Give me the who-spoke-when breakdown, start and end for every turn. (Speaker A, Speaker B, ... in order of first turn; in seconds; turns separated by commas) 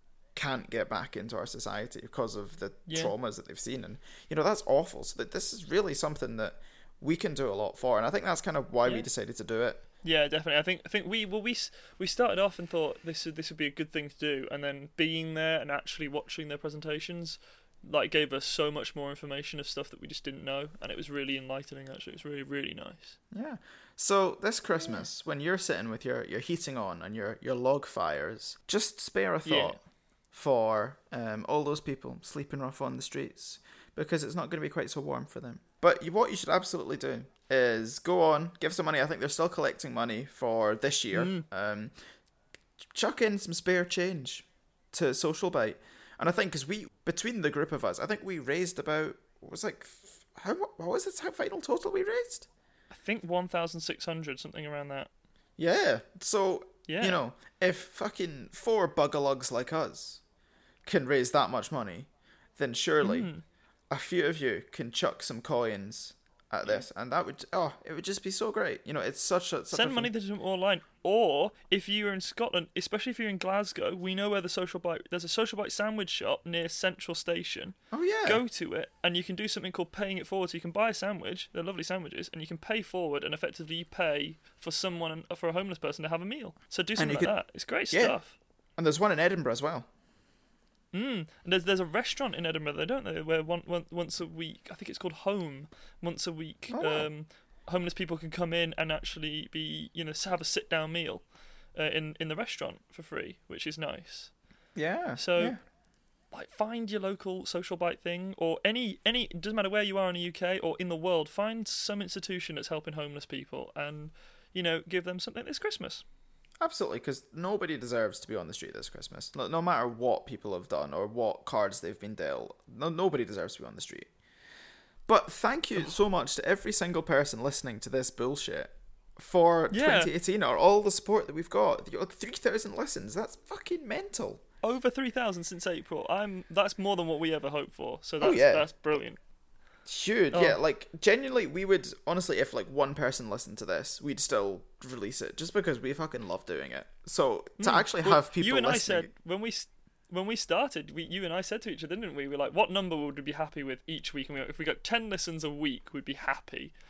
Speaker A: 0.3-9.8, Speaker B: 2.9-3.1, Speaker B: 10.0-23.2, Speaker A: 23.3-29.8, Speaker B: 29.4-29.8, Speaker A: 30.3-41.9, Speaker B: 41.1-41.4, Speaker A: 42.9-52.5, Speaker B: 52.9-55.1, Speaker A: 55.6-60.2, Speaker B: 56.9-57.2, Speaker A: 60.9-63.3, Speaker B: 63.0-63.4, Speaker A: 63.9-70.1, Speaker B: 69.7-88.3, Speaker A: 77.9-78.4, Speaker A: 87.0-87.3, Speaker A: 88.8-89.9, Speaker B: 90.9-101.2, Speaker A: 96.7-97.1, Speaker B: 101.8-104.3, Speaker A: 104.8-105.6, Speaker B: 105.2-105.6, Speaker B: 106.3-116.0, Speaker A: 116.6-124.1, Speaker A: 125.1-134.4, Speaker B: 129.7-130.1, Speaker B: 134.6-139.2, Speaker A: 138.2-138.7, Speaker A: 139.9-149.1, Speaker B: 140.3-140.6, Speaker B: 147.6-156.7